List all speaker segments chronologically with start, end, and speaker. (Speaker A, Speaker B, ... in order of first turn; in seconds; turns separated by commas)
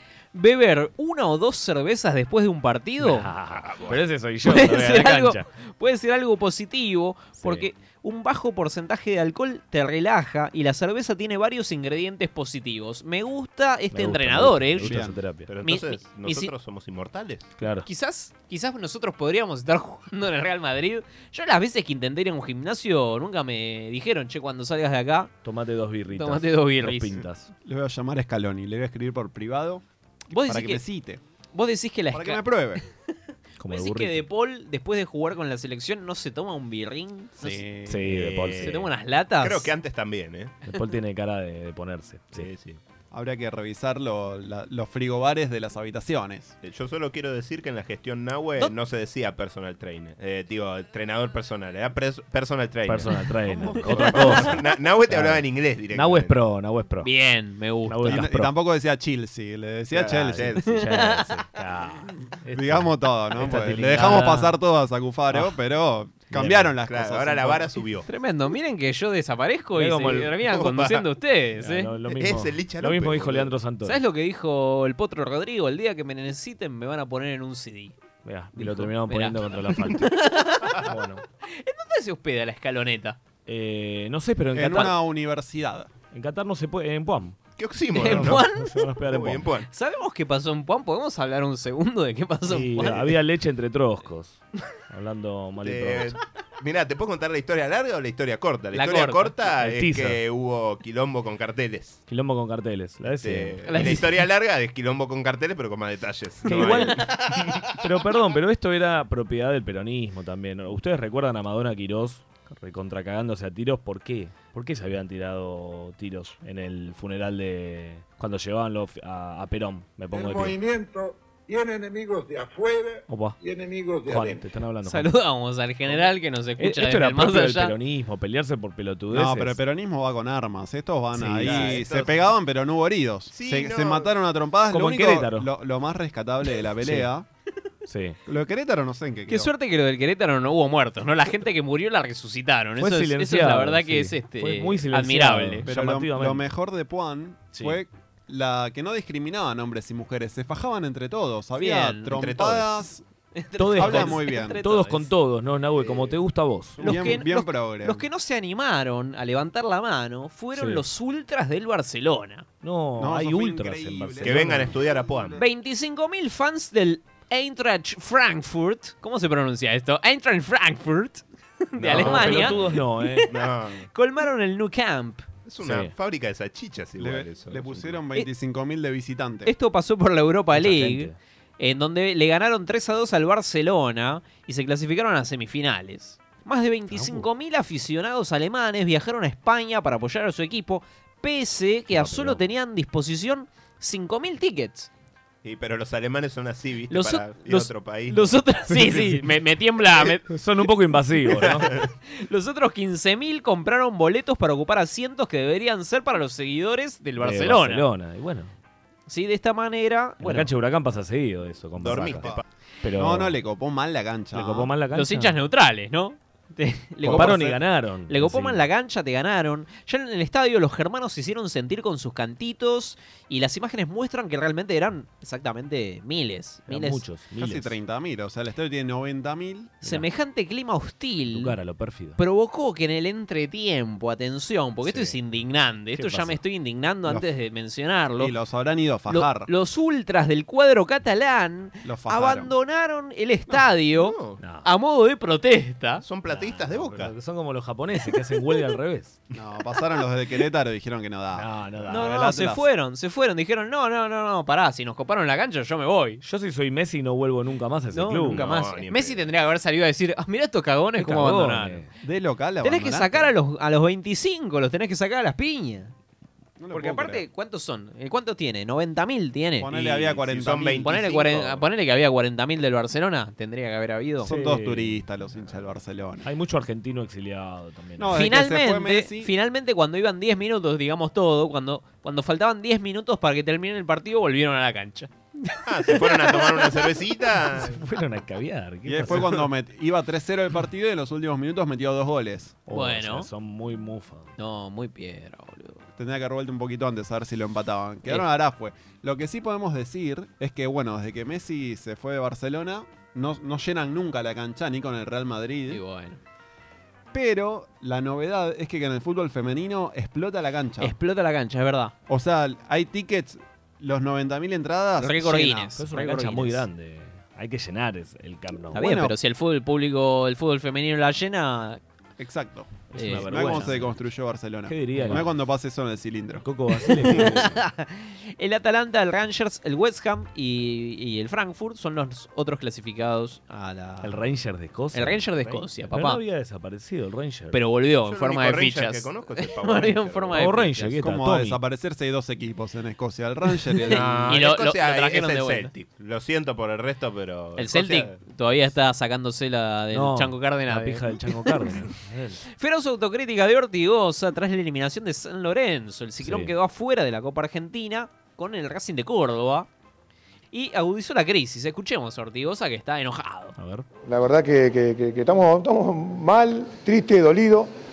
Speaker A: 0.3-3.3, Speaker B: 3.0-5.5, Speaker C: 3.5-4.0, Speaker A: 4.4-15.1, Speaker B: 7.4-7.7, Speaker B: 13.9-15.5, Speaker D: 14.8-15.2, Speaker C: 15.5-17.5, Speaker A: 15.6-16.5, Speaker B: 17.6-17.9, Speaker A: 17.8-25.3, Speaker B: 25.4-27.5, Speaker A: 26.1-27.2, Speaker D: 27.6-29.8, Speaker A: 30.3-30.8, Speaker D: 30.4-31.2, Speaker A: 31.5-32.5, Speaker D: 32.1-32.8, Speaker B: 33.6-34.2, Speaker A: 33.7-37.6, Speaker D: 37.4-38.2, Speaker B: 37.9-38.9, Speaker A: 38.6-39.7, Speaker C: 39.4-40.5, Speaker B: 40.6-42.5, Speaker C: 42.3-42.8, Speaker D: 43.1-46.5, Speaker C: 46.6-53.2, Speaker B: 52.9-57.1, Speaker D: 53.5-54.5, Speaker C: 53.7-56.4, Speaker A: 57.0-58.2, Speaker B: 57.9-58.5, Speaker D: 58.0-60.6, Speaker C: 59.9-60.6, Speaker B: 60.6-64.6, Speaker A: 60.7-61.4, Speaker D: 62.5-67.7, Speaker B: 66.3-66.7, Speaker C: 66.8-68.0, Speaker A: 68.1-71.9, Speaker B: 69.7-70.4, Speaker C: 70.5-71.0, Speaker B: 71.6-74.0, Speaker C: 72.1-73.5, Speaker A: 73.8-78.0, Speaker B: 78.2-80.1, Speaker A: 78.5-80.8, Speaker B: 80.8-81.2, Speaker A: 81.5-83.2, Speaker B: 83.5-85.0, Speaker D: 84.5-85.9, Speaker B: 86.1-87.4, Speaker C: 87.6-88.4, Speaker A: 87.9-88.8, Speaker B: 88.1-89.5, Speaker C: 89.1-89.7, Speaker A: 89.7-93.1, Speaker B: 92.5-96.2, Speaker C: 95.6-102.0, Speaker A: 98.7-99.3, Speaker B: 99.5-100.2, Speaker B: 102.1-104.1, Speaker C: 103.2-107.2, Speaker A: 103.7-104.1, Speaker B: 106.5-107.1, Speaker A: 106.5-107.2, Speaker B: 107.8-120.6, Speaker E: 120.1-124.4, Speaker B: 123.1-123.4, Speaker B: 124.1-125.1, Speaker A: 124.8-127.7, Speaker B: 126.6-129.6, Speaker D: 129.1-137.2, Speaker B: 131.1-131.8, Speaker C: 131.4-132.3, Speaker C: 133.3-134.1, Speaker B: 134.7-135.5, Speaker B: 136.8-137.1, Speaker B: 137.9-138.2, Speaker D: 138.2-139.5, Speaker A: 139.3-145.7, Speaker B: 142.8-146.4, Speaker D: 145.7-153.0, Speaker B: 147.5-147.8, Speaker A: 151.6-152.2, Speaker C: 152.1-152.7, Speaker A: 153.3-155.1, Speaker B: 153.6-157.1, Speaker D: 153.7-154.6, Speaker D: 156.8-158.1, Speaker A: 156.8-162.4, Speaker B: 160.5-160.8, Speaker B: 162.6-164.7, Speaker D: 163.0-165.4, Speaker C: 164.2-165.4, Speaker A: 165.4-175.3, Speaker C: 171.8-172.6, Speaker B: 171.9-173.3, Speaker C: 173.3-173.9, Speaker C: 175.4-178.0, Speaker B: 175.6-175.9, Speaker D: 177.0-179.5, Speaker A: 179.4-194.9, Speaker B: 180.5-181.2, Speaker B: 186.9-187.3, Speaker B: 191.9-192.4, Speaker C: 195.4-198.3, Speaker A: 196.9-200.3, Speaker B: 200.3-201.7, Speaker C: 201.3-201.9, Speaker A: 202.1-207.8, Speaker B: 207.2-208.5, Speaker A: 209.1-210.5, Speaker B: 210.2-213.3, Speaker C: 211.8-212.4, Speaker D: 212.9-214.7, Speaker B: 214.3-215.4, Speaker A: 214.9-227.0, Speaker D: 217.0-217.6, Speaker B: 217.0-218.6, Speaker B: 226.7-227.7, Speaker D: 227.4-229.8, Speaker A: 229.8-231.6, Speaker B: 231.3-232.2, Speaker A: 232.2-238.3, Speaker B: 234.8-235.1, Speaker B: 235.9-236.4, Speaker D: 238.2-239.5, Speaker A: 239.1-246.0, Speaker D: 241.8-242.5, Speaker C: 243.9-244.4, Speaker B: 244.4-244.7, Speaker C: 246.0-247.1, Speaker B: 246.2-249.2, Speaker D: 249.3-252.7, Speaker B: 251.3-252.2, Speaker A: 251.9-256.2, Speaker B: 256.2-258.5, Speaker A: 257.9-261.9, Speaker C: 258.3-259.3, Speaker B: 261.0-261.9, Speaker D: 262.0-263.3, Speaker A: 262.6-265.9, Speaker D: 266.6-267.2, Speaker A: 266.7-270.2, Speaker D: 269.6-270.9, Speaker C: 270.3-271.6, Speaker A: 270.8-274.3, Speaker D: 274.2-276.3, Speaker B: 274.2-275.0, Speaker B: 276.2-278.3, Speaker D: 278.0-279.3, Speaker A: 278.1-286.8, Speaker C: 285.6-287.8, Speaker B: 287.5-289.4, Speaker D: 288.9-292.6, Speaker B: 292.7-294.3, Speaker A: 292.7-293.3, Speaker A: 294.4-295.8, Speaker D: 295.9-305.8, Speaker A: 305.7-306.2, Speaker D: 307.1-310.9, Speaker A: 310.8-311.9, Speaker D: 312.1-315.7, Speaker A: 315.0-316.7, Speaker B: 315.8-318.9, Speaker A: 318.7-321.8, Speaker D: 318.7-319.1, Speaker D: 322.2-326.4, Speaker A: 322.9-323.7, Speaker B: 322.9-324.0, Speaker B: 324.7-325.3, Speaker B: 326.4-327.6, Speaker A: 326.7-334.3, Speaker B: 334.0-337.6, Speaker A: 334.9-336.2, Speaker A: 337.5-340.9, Speaker C: 338.0-340.4, Speaker B: 340.3-341.6, Speaker D: 341.0-344.4, Speaker A: 343.8-345.7, Speaker C: 343.9-348.2, Speaker A: 347.6-351.9, Speaker B: 349.9-352.4, Speaker A: 352.5-359.7, Speaker B: 356.2-356.5, Speaker A: 360.5-363.6, Speaker B: 363.6-363.9, Speaker F: 364.1-367.7